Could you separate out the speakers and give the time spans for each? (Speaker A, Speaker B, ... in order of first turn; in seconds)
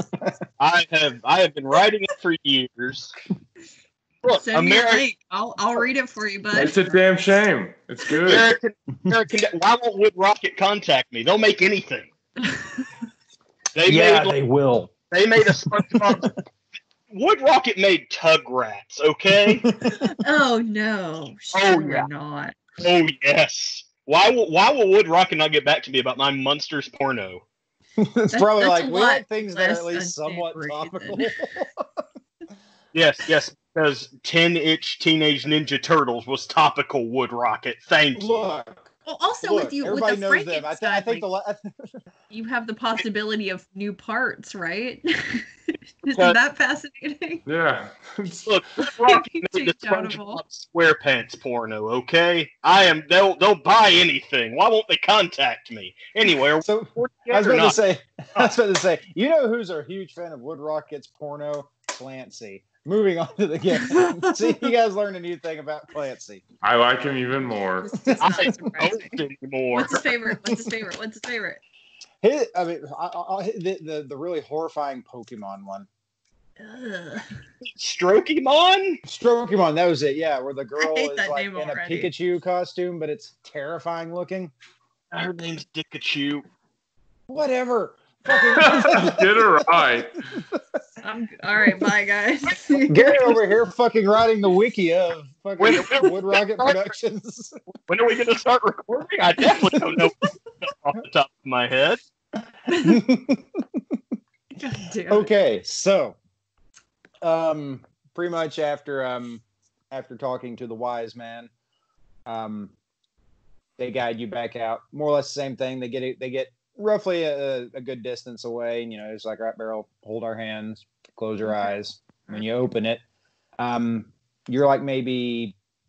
Speaker A: 0.6-3.1, 4.2-5.0, 8.1-12.1, 13.8-14.3, 15.1-16.3, 17.1-19.7, 21.5-22.1, 22.8-27.4, 32.9-38.4, 48.5-57.8, 68.2-70.0, 77.6-79.0, 85.1-86.4, 95.6-96.9, 97.9-102.0
Speaker B: 4.4-6.8, 12.4-12.9, 20.1-22.6, 28.3-31.3, 39.1-41.2, 42.3-47.4, 49.0-50.4, 63.9-64.2, 67.8-71.6, 76.6-77.3, 80.8-82.1, 91.0-93.4, 102.7-103.0, 104.6-105.3, 121.4-121.7
Speaker C: 6.5-8.5, 47.5-48.5, 66.6-68.0, 88.5-90.2
Speaker D: 13.9-14.9, 15.4-16.3, 19.8-20.2, 28.0-32.0, 38.1-42.0, 56.6-66.4, 72.2-75.9, 79.0-84.5, 87.3-89.5, 90.4-90.8, 92.9-97.6, 102.8-104.0, 105.1-106.2, 107.2-111.5, 112.3-112.7, 113.8-123.0, 123.6-125.6